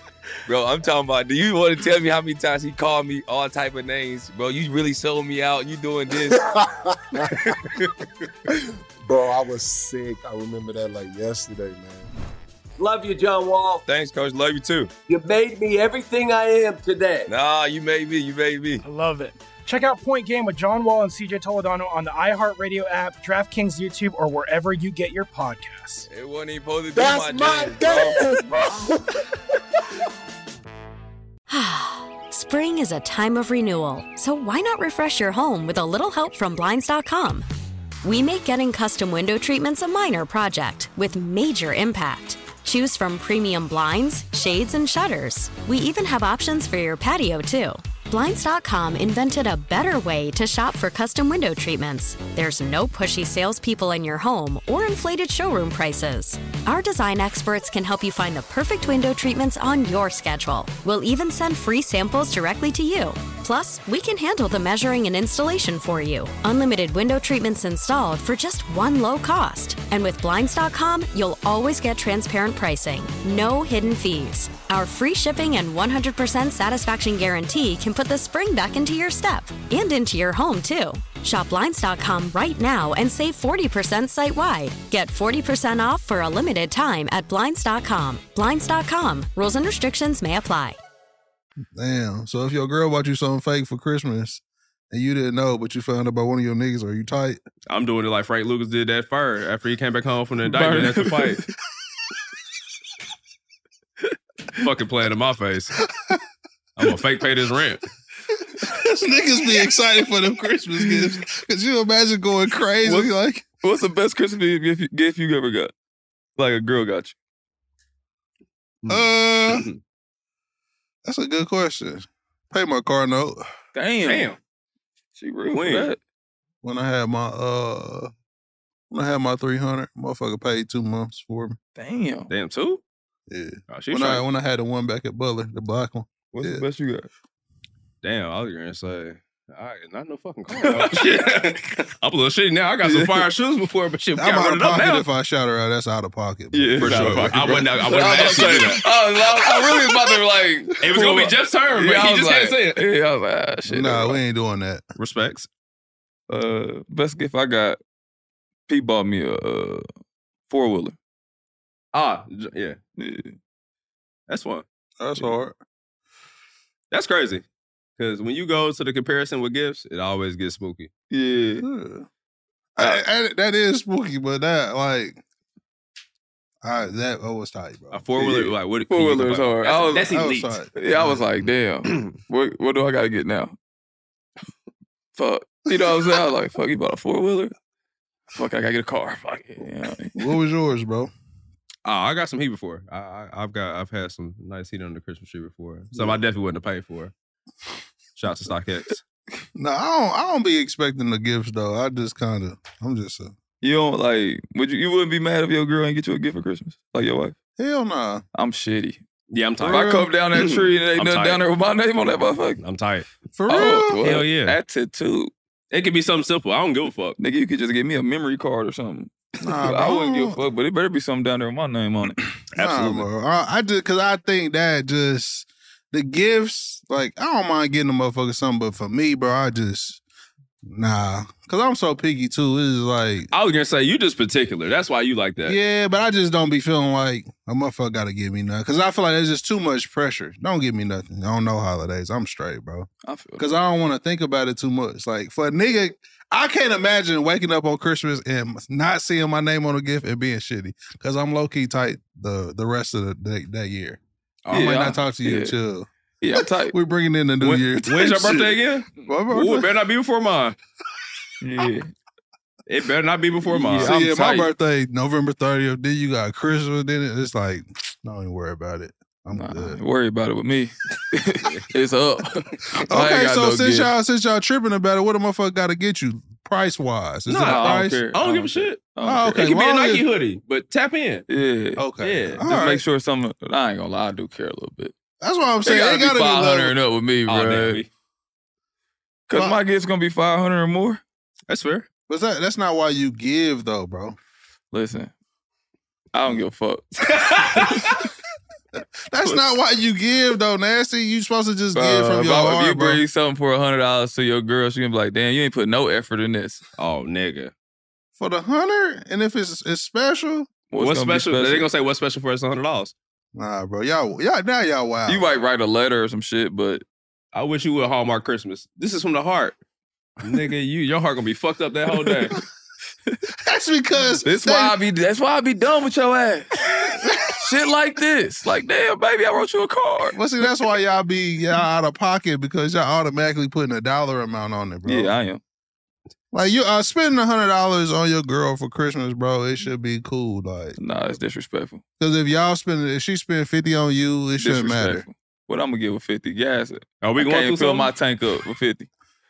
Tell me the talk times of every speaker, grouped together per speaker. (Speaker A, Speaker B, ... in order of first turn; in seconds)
Speaker A: 0.5-6.4, 13.8-14.9, 17.3-18.8, 26.1-28.2
Speaker B: 6.3-7.6, 9.0-12.1, 26.9-29.0
Speaker C: 12.8-13.8, 15.1-17.3
Speaker D: 18.8-26.1
Speaker E: 31.5-37.5, 38.0-90.8
Speaker F: 91.7-97.4, 108.6-113.4, 118.9-119.7, 121.0-123.4, 126.6-128.1, 128.9-131.6, 133.3-136.6, 144.2-147.7, 153.7-154.8, 165.0-165.6, 171.6-172.1, 172.8-175.2, 176.6-178.5, 180.0-181.2, 190.1-191.1, 195.9-196.2, 199.5-203.3, 207.6-208.2, 209.6-210.1, 213.3-214.0, 219.4-220.4, 222.5-230.0, 230.6-233.3, 235.4-259.7, 263.6-269.8, 272.9-278.1, 279.0-280.0, 281.8-282.8, 285.2-286.8, 289.3-289.6, 292.1-294.2, 299.1-303.0, 308.2-310.5, 313.3-315.3, 323.4-324.8, 326.9-327.3, 330.1-335.1, 336.3-340.8, 342.0-345.0
Speaker G: 97.7-101.4, 104.6-105.8, 106.8-107.8, 118.8-119.8, 124.0-124.4, 125.5-125.9, 132.3-132.8, 133.7-134.2, 138.0-145.1, 146.8-148.8, 150.8-152.8, 155.0-155.5, 161.9-162.8, 164.3-164.6, 166.9-167.4, 168.0-170.9, 177.9-180.6, 191.8-197.1, 198.2-199.0, 209.3-211.4, 212.6-213.1, 214.0-214.6, 215.7-217.2, 222.5-223.1, 233.3-235.6, 254.4-254.8, 257.4-260.6, 262.7-263.9, 277.3-281.2, 282.0-282.4, 287.3-287.9, 291.5-291.9, 297.1-297.9, 306.8-307.5, 310.8-312.9, 317.3-319.6, 320.2-322.4, 347.0-347.9
Speaker H: 100.5-101.4, 112.8-113.1, 113.6-115.7, 116.4-117.1, 123.7-124.3, 125.2-126.0, 131.8-132.3, 136.3-137.1, 140.6-141.5, 146.5-154.2, 156.3-157.8, 158.7-159.8, 160.5-160.9, 163.0-163.3, 171.1-171.6, 178.9-180.2, 180.7-183.6, 185.2-187.5, 188.3-190.2, 203.6-207.3, 208.3-209.0, 209.6-212.6, 213.5-215.3, 217.2-222.2, 243.0-243.5, 254.5-255.5, 256.2-256.7, 261.4-261.9, 263.4-264.5, 269.3-273.9, 277.4-279.4, 281.3-281.8, 282.4-284.9, 285.6-287.8, 289.3-291.0, 294.7-295.1, 296.1-298.0, 301.7-306.6, 310.7-311.7, 315.1-316.8, 321.9-322.3, 324.2-330.2, 334.9-335.4, 340.8-341.8, 344.4-348.9